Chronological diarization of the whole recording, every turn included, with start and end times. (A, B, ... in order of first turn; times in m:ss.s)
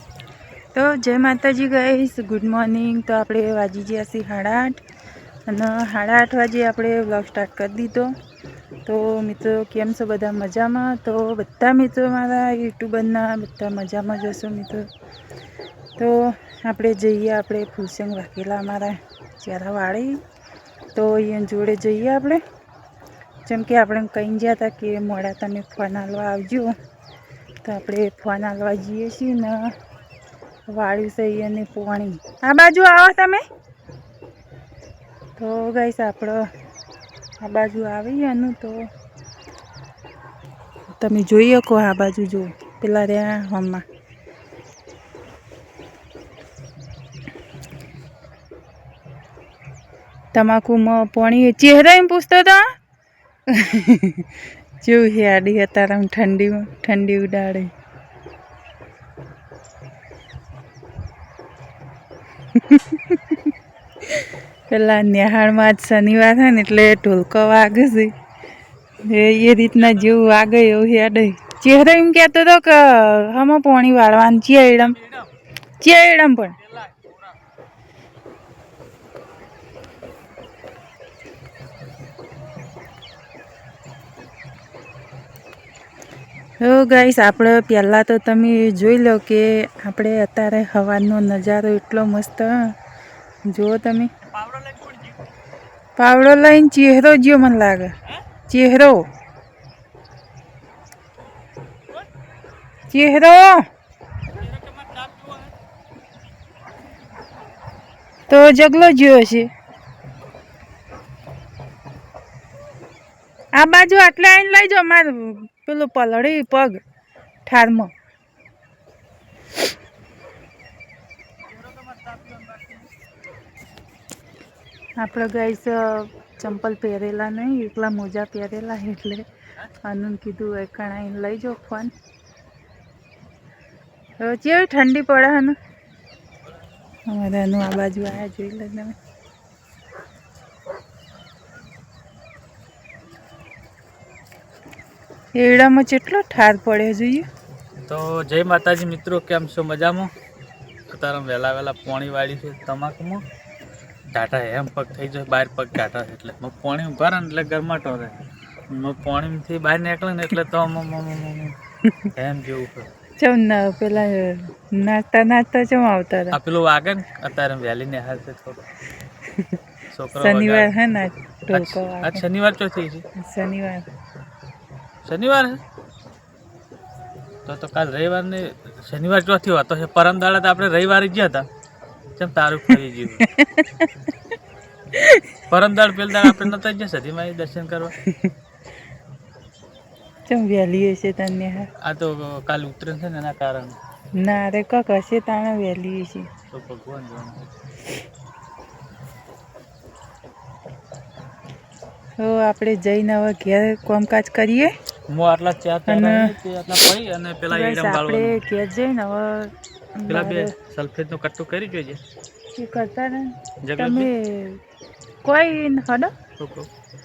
0:00.8-0:04.8 A
0:05.5-0:08.1 A
0:08.9-0:14.9 A
0:16.0-0:20.2 A
0:20.9-0:22.4 A
0:23.5-0:26.8 A
0:27.6-0:29.7 A
0:30.7-0:33.4 A
0:35.4-0:36.5 A
0:37.4-0:38.9 A
0:41.0-0:43.8 A
0:50.3-0:52.6 A
0:53.5-0:54.3 A
0:54.8-0:57.7 A
1:02.6-1:03.4 A
1:04.7-1:08.1 A
1:09.1-1:15.0 A
1:15.8-1:16.6 A
1:26.6-1:32.7 A
1:33.5-1:34.1 A
1:34.3-1:35.1 B
1:36.0-1:37.9 A
1:38.5-1:39.0 A
1:42.9-1:43.6 A
1:44.4-1:45.5 B
1:48.3-1:49.5 A
1:53.6-1:56.8 A
1:57.5-1:57.9 A
2:05.0-2:09.2 A
2:09.8-2:11.9 A
2:14.2-2:15.6 A
2:17.1-2:18.9 A
2:25.4-2:27.3 A
2:27.9-2:30.1 B
2:30.9-2:33.2 B
2:34.1-2:41.6 B
2:42.1-2:42.9 B
2:43.2-2:46.4 A
2:46.3-2:48.6 B
2:49.9-2:50.7 B
2:50.2-2:52.2 A
2:51.5-2:53.0 B
2:53.2-2:53.9 A
2:55.0-2:55.6 B
2:57.5-3:01.5 B
3:02.2-3:03.3 B
3:03.4-3:03.9 A
3:05.0-3:05.3 A
3:05.5-3:07.9 B
3:10.3-3:11.7 A
3:11.8-3:13.8 B
3:14.2-3:16.3 A
3:16.5-3:17.5 B
3:22.2-3:24.7 A
3:25.1-3:28.4 B
3:25.9-3:26.3 A
3:27.5-3:30.5 A
3:30.1-3:32.0 B
3:32.6-3:34.6 A
3:33.6-3:34.1 B
3:35.2-3:36.1 A
3:36.4-3:36.7 B